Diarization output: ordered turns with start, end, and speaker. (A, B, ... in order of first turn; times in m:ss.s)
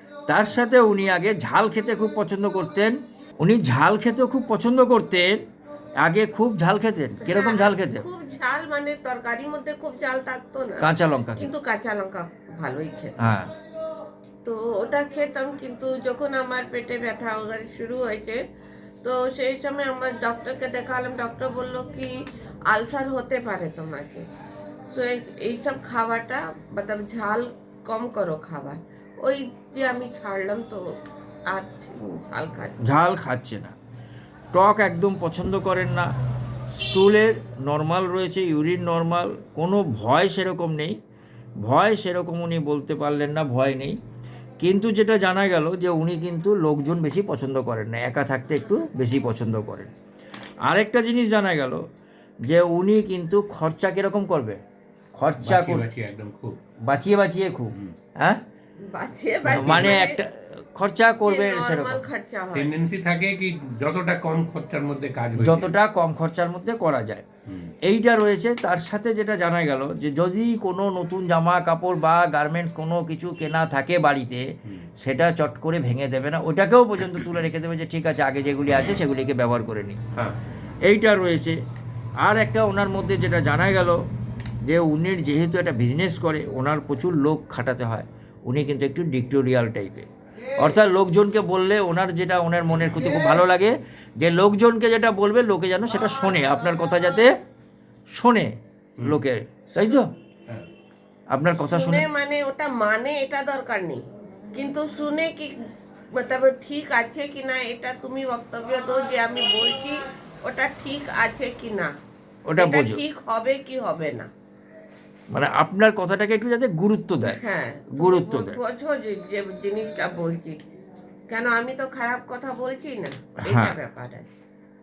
0:00.3-0:05.4 A
0:06.0-0:08.0 A
0:07.2-0:13.3 B
0:10.8-0:11.5 A
0:13.2-0:13.5 A
0:14.4-0:18.4 B
0:19.0-0:22.1 B
0:22.7-0:24.2 B
0:24.9-0:30.8 B
0:31.5-0:32.8 B
0:32.8-0:33.7 A
0:34.5-0:36.1 A
0:36.8-0:41.0 A
0:41.6-0:44.0 A
0:44.6-0:49.9 A
0:50.7-0:51.8 A
0:52.4-0:54.6 A
0:55.2-0:55.8 A
0:55.4-0:56.5 C
0:56.9-0:58.4 A
0:58.8-1:00.2 B
0:59.4-1:00.0 C
0:59.5-1:02.0 A
1:01.2-1:02.7 B
1:02.5-1:05.7 C
1:05.4-1:07.3 A
1:07.5-1:07.7 C
1:07.8-1:14.5 A
1:15.0-1:20.0 A
1:20.9-1:21.6 A
1:22.2-1:24.0 A
1:24.6-1:37.3 A
1:38.2-1:40.1 A
1:41.3-1:42.0 A
1:41.6-1:45.5 B
1:46.1-1:51.9 B
1:52.5-1:53.0 A
1:52.6-1:54.3 B
1:55.3-1:57.4 A
1:57.3-2:00.6 B
1:58.0-1:58.6 A
2:01.3-2:04.3 B
2:03.4-2:03.8 A